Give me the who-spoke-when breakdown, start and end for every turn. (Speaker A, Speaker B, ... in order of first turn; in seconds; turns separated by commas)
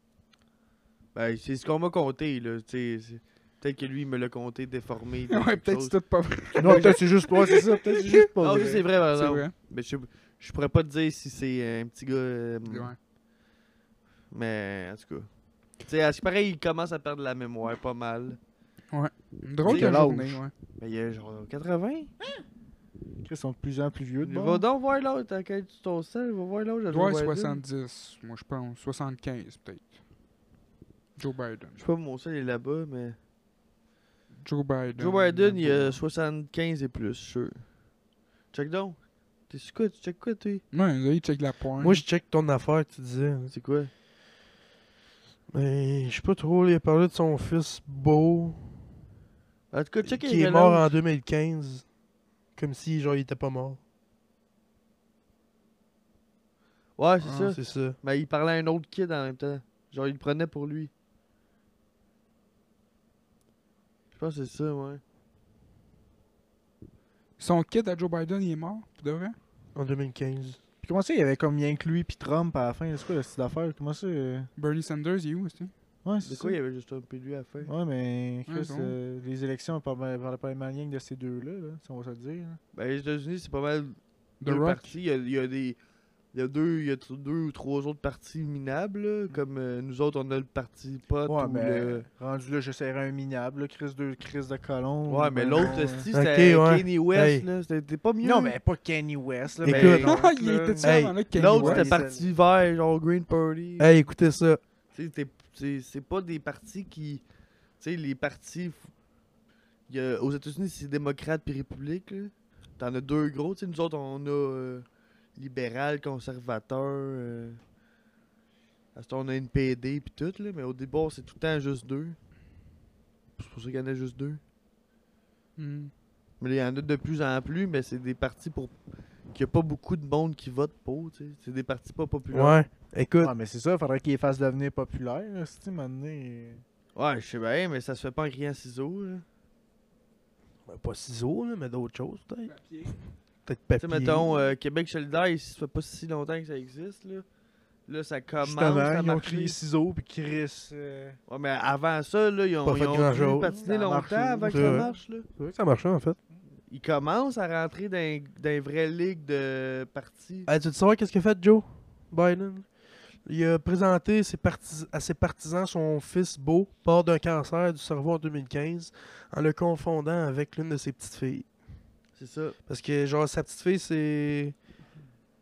Speaker A: 1.1-7.0, Speaker B: 5.3-8.2, Speaker C: 6.6-8.8, Speaker A: 8.4-12.9, Speaker B: 9.1-9.5, Speaker B: 12.7-13.0, Speaker A: 14.3-18.4, Speaker B: 18.9-20.5, Speaker C: 19.6-20.4, Speaker A: 19.7-20.0, Speaker A: 20.8-22.1, Speaker C: 23.2-24.6, Speaker A: 24.2-27.6, Speaker B: 26.9-30.0, Speaker B: 31.2-31.8, Speaker A: 31.8-33.2, Speaker B: 34.4-36.0, Speaker A: 35.0-37.8, Speaker A: 38.5-40.6, Speaker B: 40.7-42.0, Speaker D: 41.8-43.5, Speaker A: 43.5-43.9, Speaker D: 45.5-48.8, Speaker A: 49.7-51.0, Speaker D: 50.0-51.9, Speaker D: 52.5-53.8, Speaker A: 57.0-60.9, Speaker D: 57.4-58.0, Speaker A: 64.1-65.0, Speaker B: 67.4-69.4, Speaker D: 69.7-70.6, Speaker C: 70.8-74.5, Speaker B: 74.6-75.7, Speaker C: 76.0-76.6, Speaker A: 76.2-77.7, Speaker C: 77.7-82.6, Speaker B: 78.5-79.0, Speaker A: 82.7-85.8, Speaker B: 84.4-84.9, Speaker A: 86.3-92.0, Speaker C: 91.3-96.1, Speaker A: 95.1-98.6, Speaker D: 96.1-97.5, Speaker C: 98.2-102.3, Speaker D: 99.6-100.1, Speaker A: 99.7-100.2, Speaker B: 100.1-101.9, Speaker D: 100.8-101.2, Speaker A: 101.3-104.0, Speaker D: 103.8-104.6, Speaker A: 104.9-107.2, Speaker A: 107.8-108.9, Speaker A: 109.9-117.6, Speaker A: 119.0-122.2, Speaker A: 123.4-124.4, Speaker B: 125.6-125.9, Speaker A: 126.4-128.8, Speaker A: 129.3-132.6, Speaker D: 132.3-133.3, Speaker C: 133.2-136.6, Speaker A: 137.0-139.2, Speaker D: 140.7-142.6, Speaker B: 142.5-143.1, Speaker D: 143.5-144.3, Speaker A: 143.8-147.2, Speaker A: 147.9-149.6, Speaker C: 148.4-151.2, Speaker A: 151.3-155.2, Speaker D: 152.6-153.5, Speaker C: 153.1-155.0, Speaker D: 154.5-156.2, Speaker A: 156.7-160.5, Speaker D: 160.5-171.6, Speaker A: 172.2-172.6, Speaker D: 172.7-174.6